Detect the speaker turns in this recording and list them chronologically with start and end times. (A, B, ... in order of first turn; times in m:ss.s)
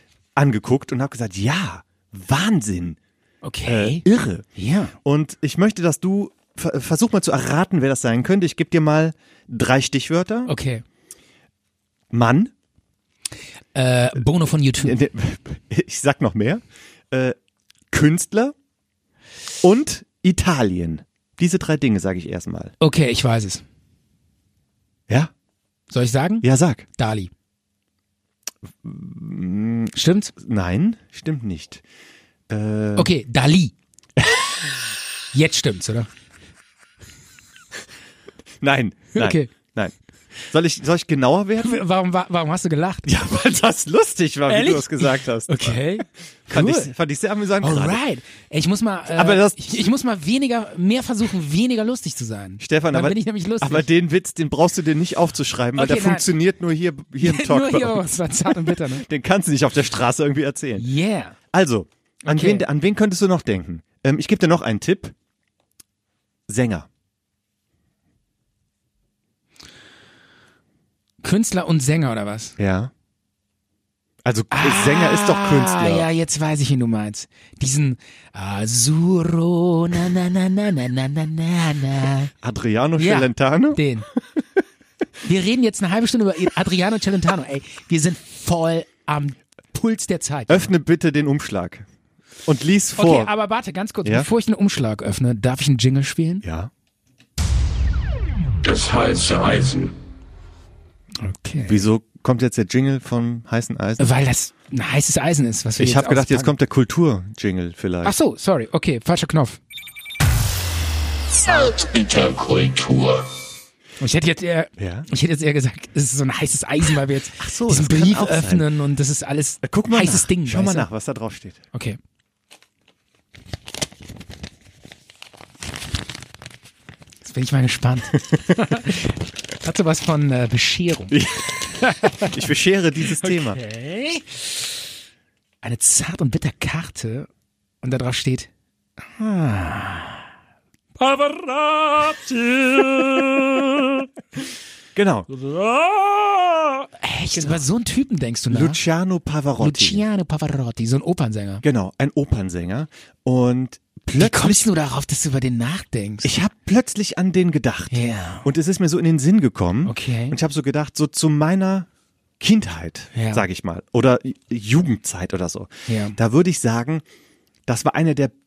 0:00.4-0:03.0 A
0:03.4-0:04.0 B
0:03.6-0:04.5 A
0:04.6-0:04.9 B
0:05.0-0:10.5 A
0:10.5-0:10.8 B
0:12.1-0:12.5 A
0:13.7-0:15.0 B
0:14.8-0:17.4 A
0:17.9-0:18.5 A
0:19.6-0:22.7 A
0:22.8-0:23.6 B
0:25.9-0:27.3 B
0:26.4-0:26.9 A
0:28.8-0:31.8 A
0:29.9-0:30.3 B
0:32.5-0:33.1 A
0:33.0-0:33.7 B
0:34.2-0:34.4 A
0:35.3-0:36.1 B
0:38.6-0:39.9 A
0:39.1-0:39.5 B
0:40.5-0:41.8 A
0:41.6-0:43.1 B
0:43.0-0:45.9 A
0:44.5-0:46.9 B
0:46.5-0:48.0 A
0:47.6-0:53.9 B
0:49.1-0:49.9 A
0:52.6-1:00.9 A
0:55.7-0:56.3 B
0:57.2-0:59.0 B
1:00.8-1:01.4 B
1:01.5-1:05.1 A
1:02.2-1:02.6 B
1:06.5-1:06.9 A
1:11.2-1:12.6 B
1:12.6-1:12.9 A
1:14.2-1:16.1 A
1:14.5-1:22.3 B
1:22.4-1:23.8 A
1:23.0-1:24.1 B
1:25.2-1:30.7 B
1:30.5-1:31.8 A
1:32.4-1:33.3 A
1:33.0-1:36.4 B
1:36.4-1:36.7 A
1:38.6-1:39.9 C
1:41.2-1:41.8 B
1:41.6-1:44.1 A
1:44.0-1:46.5 B
1:45.8-1:48.1 A
1:48.0-1:49.6 B
1:51.4-1:53.3 C
1:54.0-2:00.9 B
1:54.8-1:55.1 A
1:57.4-1:58.7 A
1:59.6-2:01.6 A
2:01.7-2:02.0 B
2:07.2-2:11.2 B
2:11.1-2:11.6 A
2:11.7-2:12.3 B
2:12.1-2:13.6 A
2:13.1-2:14.7 B
2:15.6-2:17.3 B
2:17.8-2:18.5 B
2:19.2-2:20.2 B
2:21.0-2:23.6 B
2:24.9-2:25.3 A
2:25.4-2:26.3 B
2:26.8-2:28.8 B
2:27.3-2:27.6 A
2:28.5-2:30.0 A
2:29.6-2:31.6 B
2:31.6-2:34.7 A
2:34.2-2:36.3 B
2:36.2-2:41.9 A
2:37.9-2:38.4 B
2:39.8-2:40.4 B
2:42.4-2:47.0 A
2:43.1-2:43.4 B
2:45.9-2:46.2 B
2:47.7-2:48.3 A